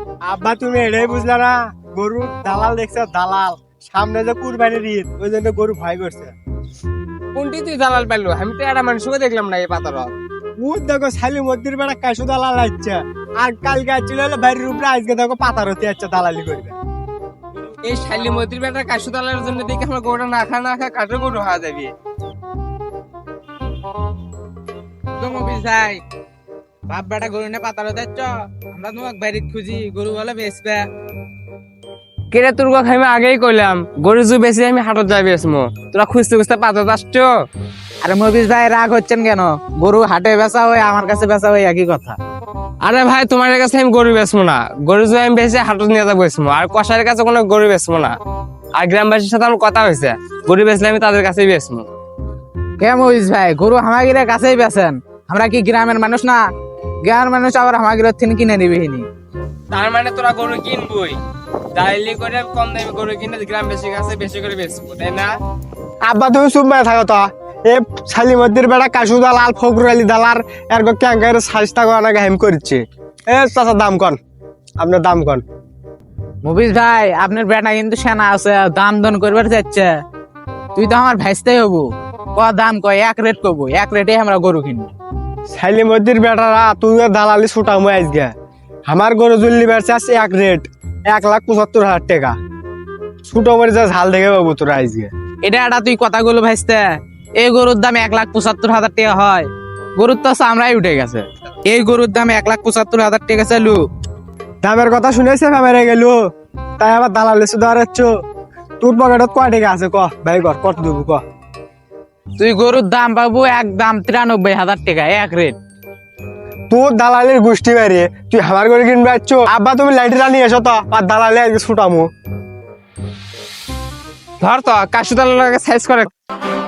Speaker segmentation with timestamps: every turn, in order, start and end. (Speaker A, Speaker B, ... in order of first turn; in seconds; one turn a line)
Speaker A: 0.2-6.3
Speaker B: 7.3-10.1
Speaker A: 10.6-16.8
Speaker B: 17.8-21.9
Speaker C: 25.2-26.0
Speaker C: 26.9-30.9
Speaker B: 32.3-37.3
Speaker C: 38.0-42.2
Speaker B: 42.8-48.1
Speaker B: 48.8-51.9
Speaker C: 52.8-56.4
Speaker C: 57.0-59.1
Speaker B: 59.7-61.2
Speaker B: 61.8-65.3
Speaker A: 66.0-74.2
Speaker A: 74.8-75.4
Speaker C: 76.4-80.0
Speaker C: 80.8-84.9
Speaker A: 85.5-88.3
Speaker A: 88.9-92.3
Speaker A: 93.2-95.1
Speaker C: 95.4-103.8
Speaker A: 104.6-106.2
Speaker A: 106.8-108.2
Speaker A: 108.8-111.2
Speaker C: 112.4-115.6
Speaker A: 116.7-122.1
Speaker B: 124.4-126.1